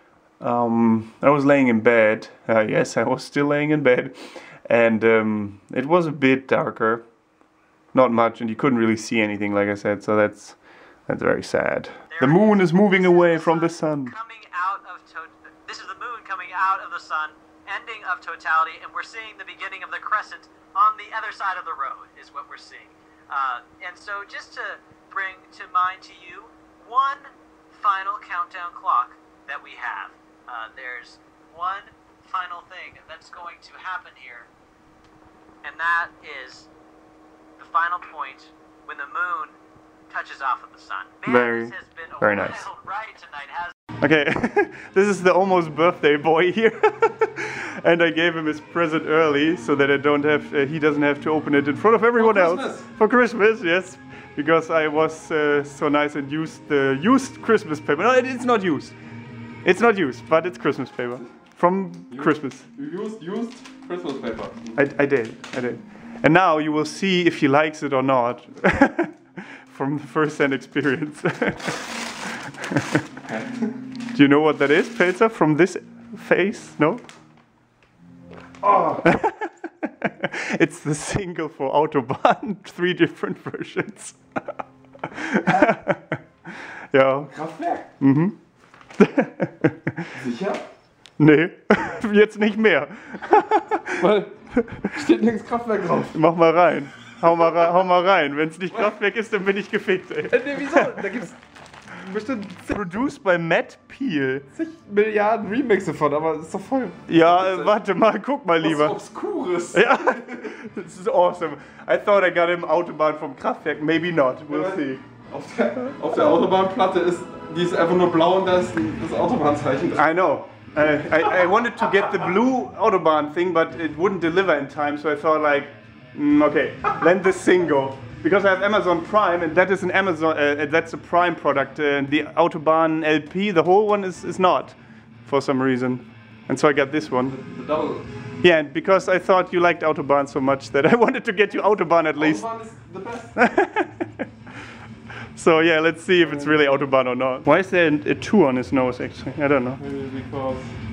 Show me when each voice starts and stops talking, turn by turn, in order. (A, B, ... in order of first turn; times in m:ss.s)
0:00.4-0:07.0 A
0:07.9-0:14.1 A
0:12.1-0:34.5 B
0:35.6-0:36.7 B
0:37.6-0:39.6 B
0:40.1-0:43.7 B
0:41.2-0:42.7 A
0:44.0-0:59.0 A
0:52.1-0:52.9 C
0:59.6-1:02.6 A
1:02.1-1:04.7 C
1:04.8-1:11.9 A
1:12.7-1:13.0 A
1:13.2-1:13.7 C
1:14.1-1:17.0 A
1:18.6-1:19.0 C
1:19.0-1:24.2 A
1:25.1-1:27.3 A
1:27.3-1:27.8 C
1:28.0-1:28.4 A
1:29.0-1:30.1 A
1:30.1-1:30.6 C
1:31.2-1:34.0 A
1:34.0-1:36.2 C
1:34.6-1:34.9 A
1:36.1-1:40.9 A
1:40.3-1:41.4 C
1:42.0-1:42.8 C
1:42.7-1:44.5 A
1:44.5-1:47.8 C
1:47.1-1:49.0 A
1:48.6-1:50.5 C
1:49.7-1:55.0 A
1:54.5-2:00.1 C
2:00.0-2:17.4 A
2:17.2-2:18.0 C
2:18.4-2:22.5 A
2:22.1-2:23.4 C
2:23.4-2:24.2 A
2:25.4-2:29.8 A
2:26.2-2:26.9 C
2:29.8-2:30.7 C